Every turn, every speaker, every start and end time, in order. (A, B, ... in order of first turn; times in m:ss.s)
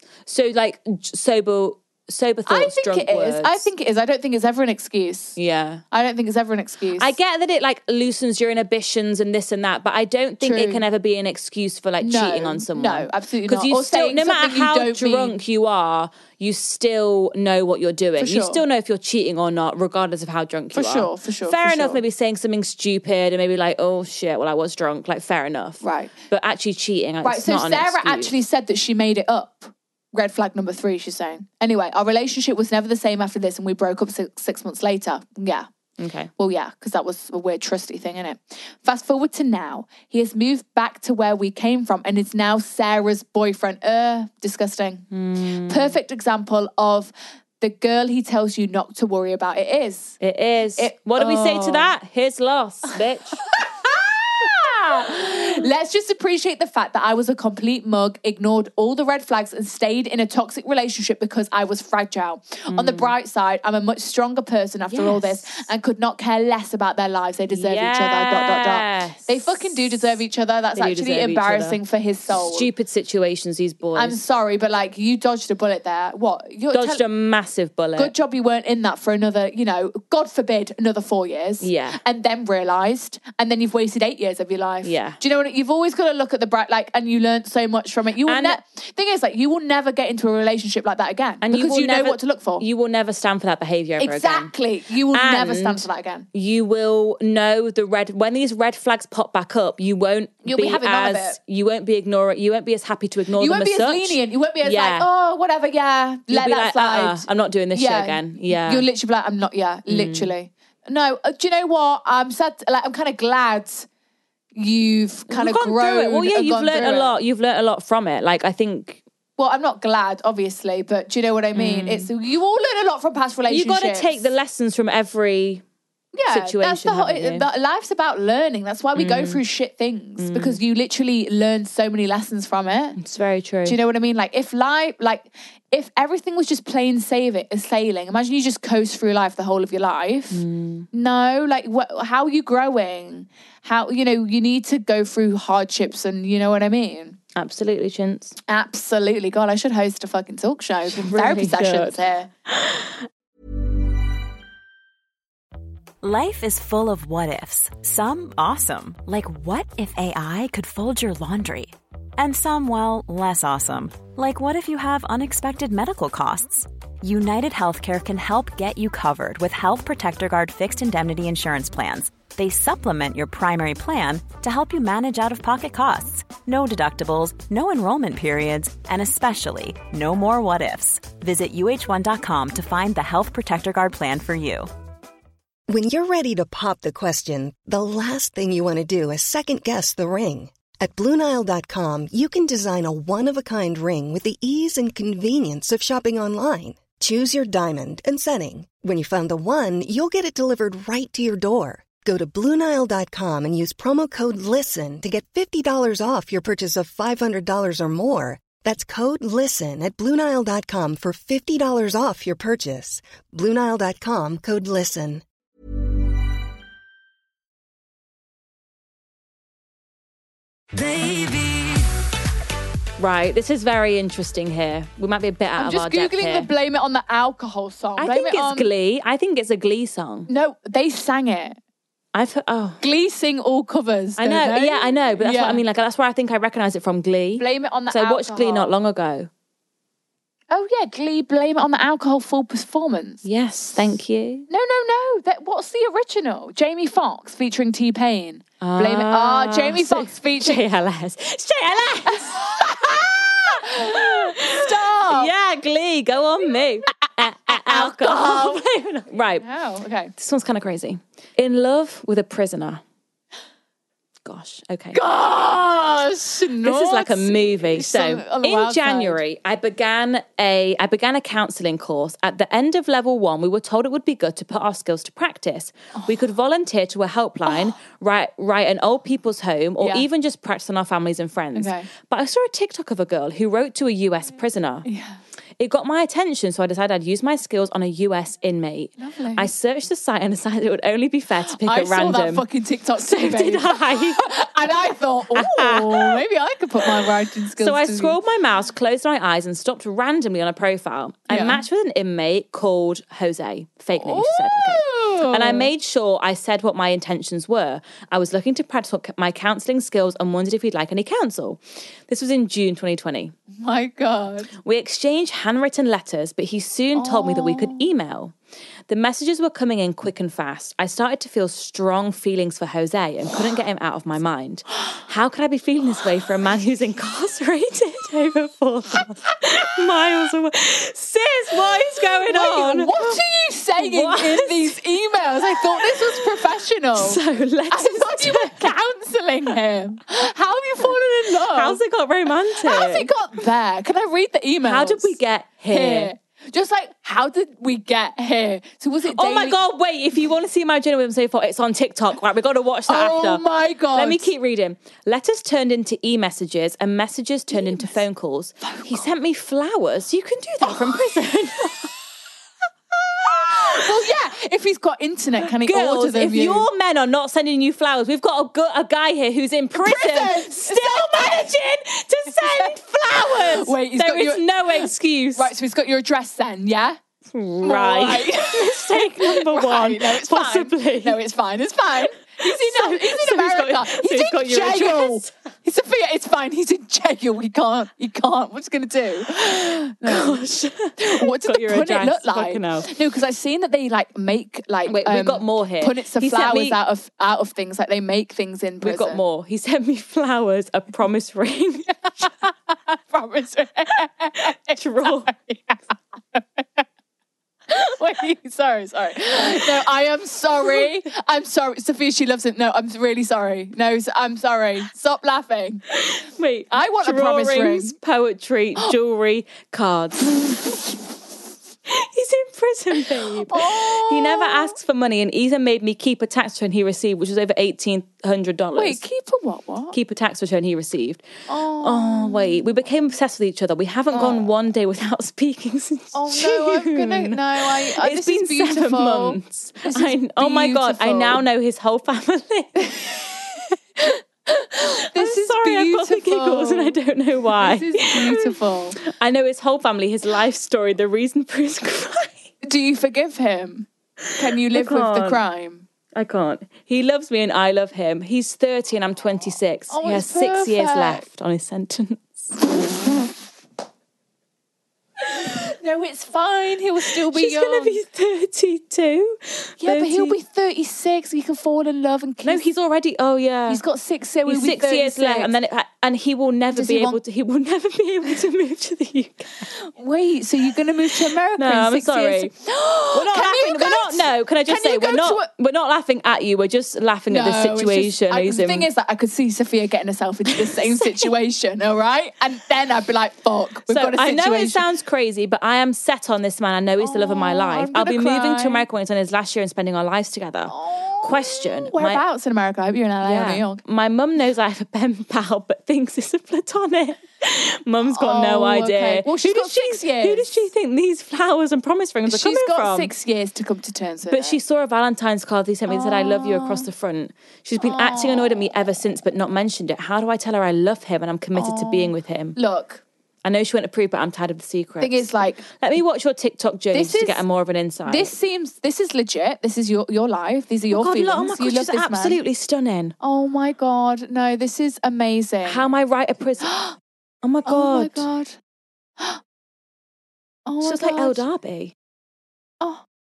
0:00.3-0:03.7 A
0:02.5-0:05.4 B
0:05.4-0:05.8 A
0:05.9-0:07.1 B
0:07.0-0:28.3 A
0:10.4-0:10.8 B
0:12.0-0:15.4 B
0:18.2-0:18.6 B
0:20.7-0:22.0 B
0:25.8-0:26.1 B
0:27.2-0:35.7 B
0:36.0-0:36.3 A
0:36.4-0:50.2 B
0:45.1-0:46.0 A
0:50.2-0:53.4 A
0:50.8-0:52.0 B
0:53.0-1:12.7 B
1:02.7-1:03.1 A
1:04.9-1:05.7 A
1:07.5-1:10.2 A
1:10.8-1:11.8 A
1:12.4-1:14.2 A
1:14.0-1:17.0 B
1:16.7-1:18.1 A
1:18.0-1:32.6 B
1:21.6-1:22.0 A
1:24.8-1:25.2 A
1:28.2-1:28.6 A
1:31.4-1:34.5 A
1:34.0-1:36.3 B
1:35.1-1:45.1 A
1:40.4-1:41.4 B
1:43.4-1:53.9 B
1:46.3-1:48.9 A
1:49.9-1:50.3 A
1:54.6-1:57.2 B
1:55.3-1:59.0 A
1:59.4-2:04.3 B
2:01.5-2:02.1 A
2:03.5-2:05.6 A
2:06.2-2:13.0 B
2:06.3-2:07.4 A
2:09.0-2:09.4 A
2:10.2-2:10.6 A
2:13.0-2:13.8 A
2:13.6-2:20.4 B
2:20.3-2:20.9 A
2:20.9-2:27.2 B
2:27.4-2:28.4 A
2:28.5-2:32.3 B
2:30.9-2:33.0 A
2:36.0-3:04.7 C
3:05.7-3:35.2 D
3:40.8-3:41.9 A
3:43.0-3:46.5 A
3:45.6-3:48.7 B
3:48.0-3:50.3 A
3:50.3-3:51.6 B
3:52.1-3:52.8 A
3:52.8-3:55.6 B
3:54.2-3:59.3 A
3:57.4-3:58.7 B
4:00.5-4:03.2 B
4:03.2-4:04.5 A
4:04.5-4:10.6 B
4:08.6-4:12.7 A
4:12.1-4:15.3 B
4:13.5-4:19.5 A
4:17.0-4:18.6 B
4:19.4-4:20.1 B
4:20.2-4:22.8 A
4:24.2-4:25.0 A
4:24.9-4:29.2 B
4:26.6-4:44.9 A
4:37.5-4:37.7 B
4:39.8-4:40.1 B
4:41.6-4:41.9 B
4:44.8-4:45.2 B
4:45.6-4:52.4 A
4:49.0-4:49.5 B
4:51.5-4:58.2 B
4:53.0-4:54.3 A
4:55.4-4:56.2 A
4:57.6-5:13.3 A
5:01.3-5:01.6 B
5:04.0-5:05.7 B
5:13.6-5:14.5 B
5:14.6-5:18.4 A
5:17.0-5:17.9 B
5:18.9-5:33.2 A
5:32.3-5:41.8 B
5:33.8-5:34.8 A
5:35.4-5:38.7 A
5:40.8-5:43.1 A
5:42.6-5:45.2 B
5:44.6-5:46.1 A
5:45.7-5:49.6 B
5:49.1-6:01.9 A
5:52.9-5:54.3 B
5:57.5-5:58.0 B
5:58.6-5:59.0 B
6:00.6-6:01.1 B
6:03.2-6:06.7 B
6:03.2-6:04.0 A
6:05.4-6:15.5 A
6:09.7-6:11.5 B
6:12.3-6:17.0 B
6:17.3-6:21.2 A
6:17.6-6:30.4 B
6:22.4-6:25.3 A
6:29.5-6:33.0 A
6:31.0-6:39.2 B
6:34.9-6:36.8 A
6:38.8-6:42.3 A
6:42.2-6:46.8 B
6:44.7-6:45.3 A
6:47.7-6:55.8 B
6:49.4-6:49.7 A
6:55.9-7:00.8 A
6:56.7-6:58.0 B
7:00.4-7:00.9 B
7:01.9-7:09.0 A
7:03.0-7:04.8 B
7:08.8-7:10.0 B
7:09.9-7:11.3 A
7:11.5-7:12.7 B
7:11.8-7:23.3 A
7:14.1-7:14.5 B
7:16.1-7:21.4 B
7:22.9-7:23.4 B
7:24.0-7:27.0 B
7:25.2-7:32.5 A
7:27.6-7:29.0 B
7:32.6-7:35.9 B
7:34.3-7:35.4 A
7:36.2-7:43.1 A
7:39.9-7:41.2 B
7:42.7-7:43.2 B
7:45.4-7:48.0 B
7:47.1-7:50.4 A
7:49.8-7:52.6 B
7:52.4-7:53.8 A
7:53.7-7:55.5 B
7:54.5-7:59.7 A
7:56.7-7:57.2 B
7:59.9-8:05.5 B
8:01.2-8:02.5 A
8:03.1-8:08.9 A
8:07.3-8:14.8 B
8:10.5-8:11.3 A
8:13.9-8:22.2 A
8:17.0-8:18.9 B
8:20.7-8:23.8 B
8:23.2-8:33.1 A
8:28.0-8:30.7 B
8:32.3-8:34.6 B
8:34.3-8:42.6 A
8:35.9-8:36.9 B
8:37.8-8:39.0 B
8:41.6-8:43.0 B
8:43.4-8:48.3 A
8:45.0-8:45.6 B
8:46.9-8:47.4 B
8:48.1-8:52.4 B
8:50.9-8:53.2 A
8:53.2-8:55.8 B
8:55.6-8:56.7 A
8:56.6-8:57.0 B
8:57.4-8:58.3 A
8:57.7-8:58.5 B
9:00.7-9:01.5 B
9:00.8-9:01.9 A